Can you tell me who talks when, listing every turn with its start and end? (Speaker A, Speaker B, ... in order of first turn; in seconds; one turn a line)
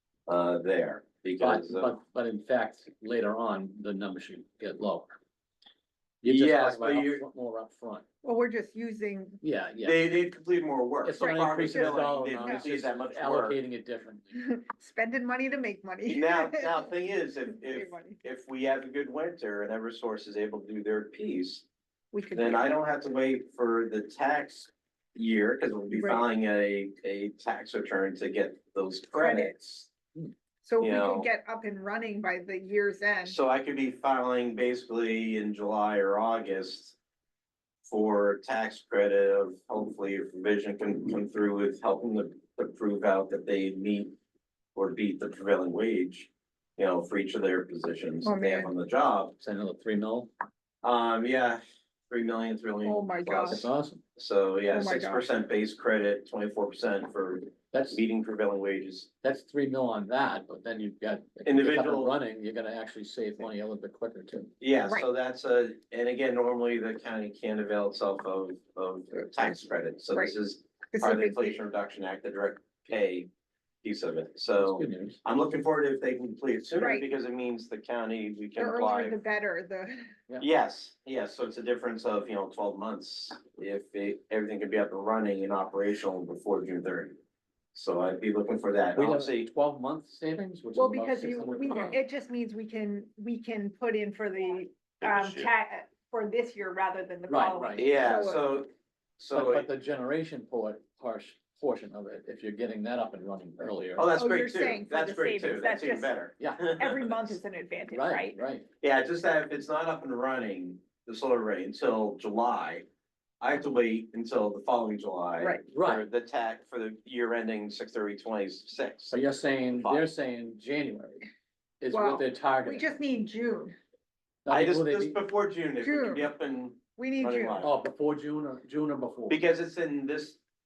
Speaker A: 0.3-1.9
Speaker B: 1.4-5.1
Speaker B: 6.2-8.0
Speaker A: 6.2-7.2
Speaker C: 8.2-9.4
Speaker B: 9.4-10.1
Speaker A: 9.8-13.6
Speaker B: 11.0-14.4
Speaker C: 11.2-12.7
Speaker C: 14.3-16.9
Speaker A: 16.1-21.6
Speaker C: 17.5-18.2
Speaker C: 22.1-22.8
Speaker A: 22.3-29.9
Speaker C: 25.9-26.2
Speaker C: 29.1-29.5
Speaker C: 30.6-33.4
Speaker A: 30.8-31.3
Speaker A: 33.2-37.0
Speaker A: 37.8-44.1
Speaker A: 44.7-49.3
Speaker C: 48.2-48.7
Speaker B: 49.4-50.3
Speaker A: 50.8-59.1
Speaker C: 52.8-53.6
Speaker B: 53.5-54.0
Speaker C: 54.7-55.3
Speaker B: 57.7-58.0
Speaker B: 59.2-64.5
Speaker A: 61.4-62.1
Speaker A: 64.6-73.3
Speaker C: 69.3-69.5
Speaker C: 70.9-71.6
Speaker A: 73.8-79.2
Speaker B: 74.6-75.2
Speaker C: 76.7-77.1
Speaker C: 78.6-80.1
Speaker A: 80.4-87.2
Speaker A: 87.7-89.5
Speaker B: 88.9-92.0
Speaker C: 90.7-98.4
Speaker A: 95.1-95.5
Speaker B: 97.3-98.2
Speaker A: 97.8-98.7
Speaker A: 99.2-99.7
Speaker B: 99.3-104.1
Speaker A: 104.0-107.1
Speaker C: 104.1-106.2
Speaker B: 106.4-106.8
Speaker C: 106.7-108.4
Speaker B: 107.9-108.7
Speaker A: 108.8-112.8
Speaker A: 113.4-119.2
Speaker C: 115.4-115.7
Speaker B: 115.7-116.0
Speaker B: 119.1-121.3
Speaker A: 119.7-120.0
Speaker B: 121.8-122.9
Speaker C: 121.9-123.7
Speaker B: 124.4-125.2
Speaker A: 124.5-127.7
Speaker C: 125.8-126.3
Speaker C: 127.0-127.7
Speaker B: 127.6-129.4
Speaker A: 129.3-130.4